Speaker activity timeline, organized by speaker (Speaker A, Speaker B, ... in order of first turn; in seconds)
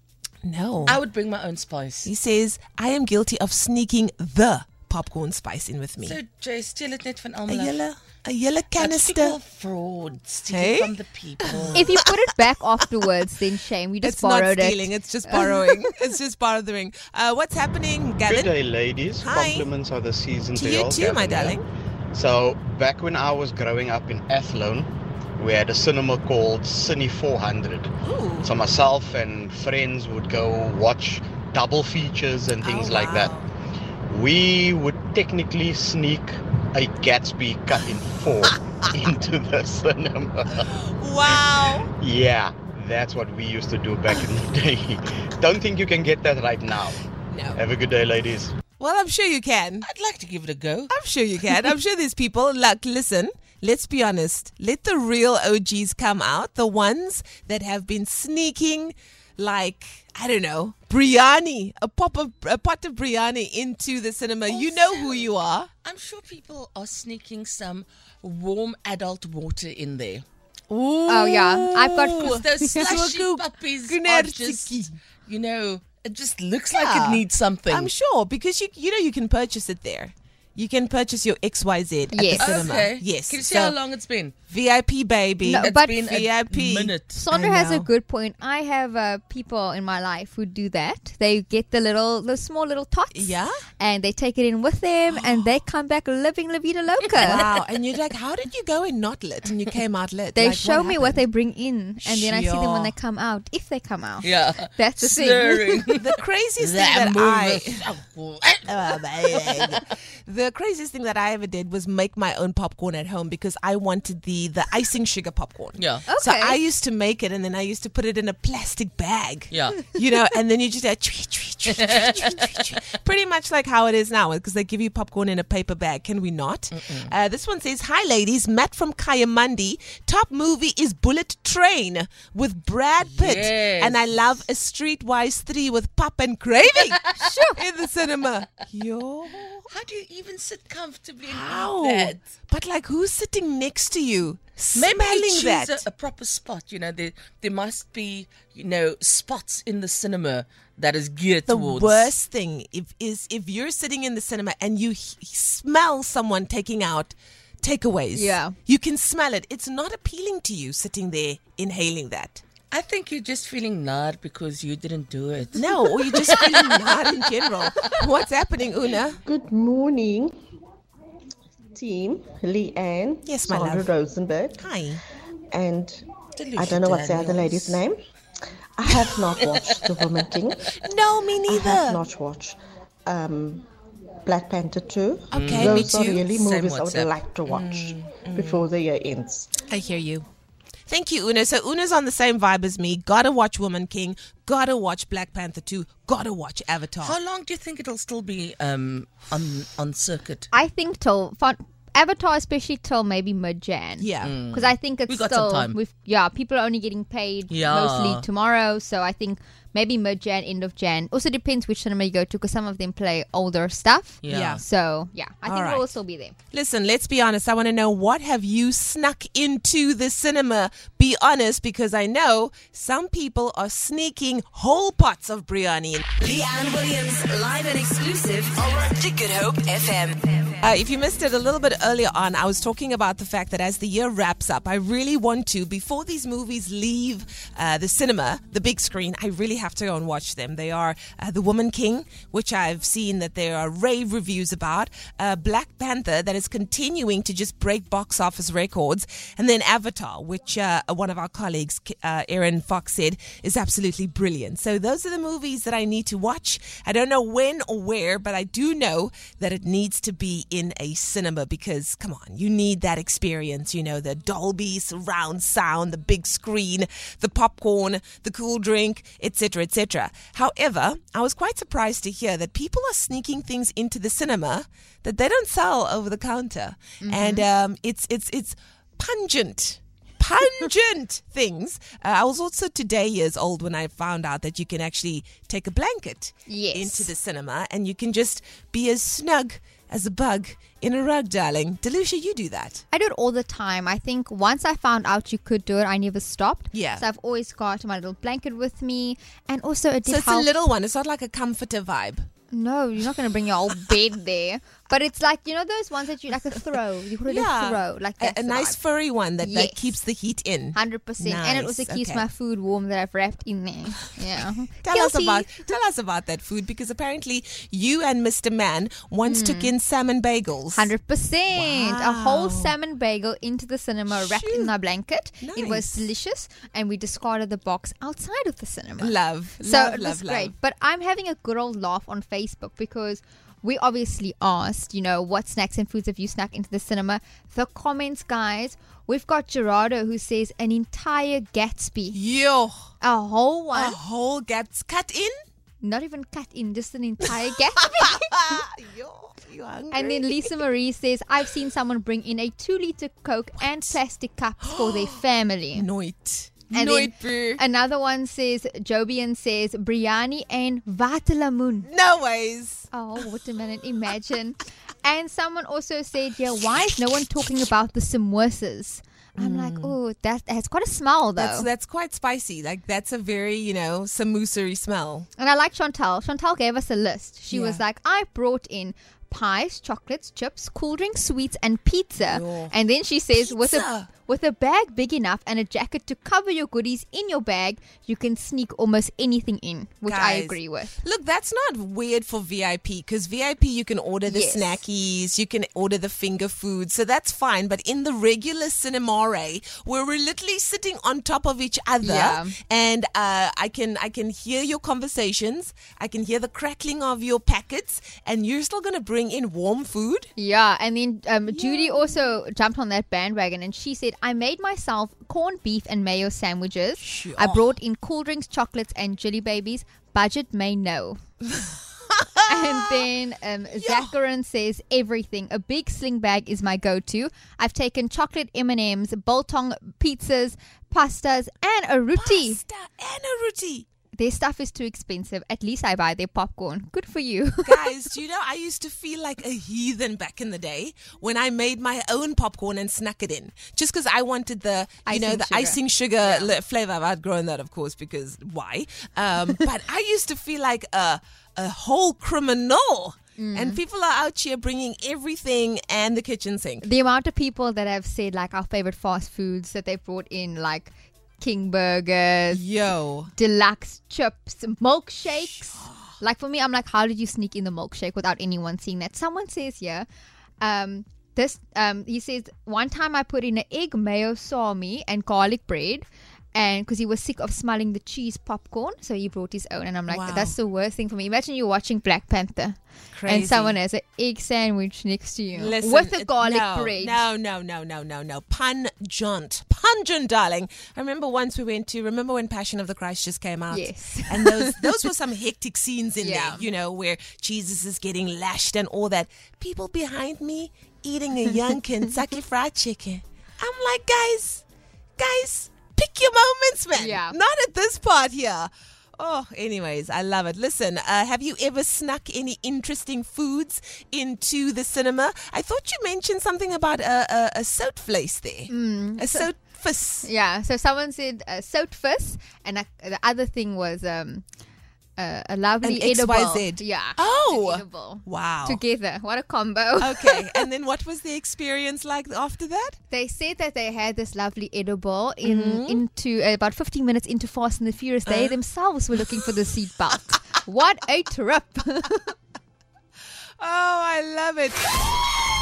Speaker A: 0.4-1.0, 2.0-6.2, 7.5-9.4, 10.5-12.1, 14.0-18.5, 19.2-19.7, 20.5-21.6, 28.0-28.5, 32.6-33.5, 40.5-41.9, 47.3-47.6, 48.8-49.9, 50.9-65.7, 70.7-74.9, 76.7-83.8, 84.5-87.9, 93.1-93.6, 97.1-101.2, 102.0-102.9, 105.9-107.8, 108.6-139.7, 141.2-145.8, 151.5-162.4, 165.5-169.2, 173.2-173.9, 174.6-175.0, 180.8-182.0, 185.3-186.2, 187.5-188.7, 189.7-190.2, 190.9-197.2, 204.0-204.3, 214.3-214.6, 215.4-215.9, 216.5-226.1, 230.6-292.8, 296.7-297.1, 300.0-302.2, 307.2-312.3, 314.8-320.9, 321.5-322.7, 324.1-324.7, 325.4-326.0, 329.0-330.5, 342.1-342.9, 343.7-345.3, 347.2-350.6, 354.6-357.6, 361.8-362.9, 369.4-369.9, 371.3-375.3, 377.5-377.8, 383.3-384.1, 390.1-410.3, 411.5-412.3, 417.0-417.7, 421.7-423.0, 423.7-424.1, 432.1-433.9, 437.6-456.9, 462.5-463.3, 465.3-466.1, 480.1-480.6, 483.1-483.8, 485.5-504.6, 505.2-520.3, 525.8-528.8, 530.0-533.0, 535.4-536.0, 538.2-538.6, 543.6-544.8
Speaker B: 0.8-2.1, 6.0-7.8, 8.8-11.9, 49.8-50.9, 64.5-65.3, 65.8-70.2, 72.1-77.9, 82.4-84.3, 85.6-87.2, 104.2-106.1, 106.6-109.9, 115.8-116.0, 119.5-119.8, 121.8-122.5, 126.7-127.1, 133.0-134.4, 136.8-137.1, 139.7-142.2, 144.7-152.1, 162.7-168.0, 176.4-177.8, 178.9-180.2, 185.3-187.2, 197.0-200.5, 204.2-205.8, 207.5-208.3, 214.2-214.6, 382.2-382.5, 446.2-446.5
Speaker C: 11.7-15.9, 71.1-73.0, 82.1-82.7, 85.4-85.9, 87.1-97.4, 100.3-105.8, 116.1-116.6, 137.1-137.6, 158.2-158.5, 200.5-216.3, 277.0-277.4, 286.5-287.1, 292.9-300.5, 302.5-308.8, 309.4-309.9, 310.7-315.7, 319.2-319.7, 320.7-342.2, 343.0-344.0, 345.8-348.6, 349.9-355.9, 356.7-361.9, 362.9-371.7, 375.4-390.9, 394.2-394.8, 402.0-402.5, 410.4-421.2, 422.4-432.6, 434.1-437.9, 445.1-445.8, 453.4-453.8, 456.8-462.6, 463.3-470.1, 470.6-487.2, 493.7-495.1, 496.2-496.6, 506.9-507.4, 518.7-519.5, 520.2-524.4, 525.2-530.7, 533.1-542.3
Speaker D: 18.3-21.5, 22.1-27.9, 28.4-33.3, 34.1-40.7, 42.0-47.0, 47.5-48.5
Speaker E: 169.2-170.3, 171.7-174.7, 175.5-176.0, 176.6-178.0, 178.8-180.7, 181.5-183.7, 184.2-189.6
Speaker F: 226.2-230.4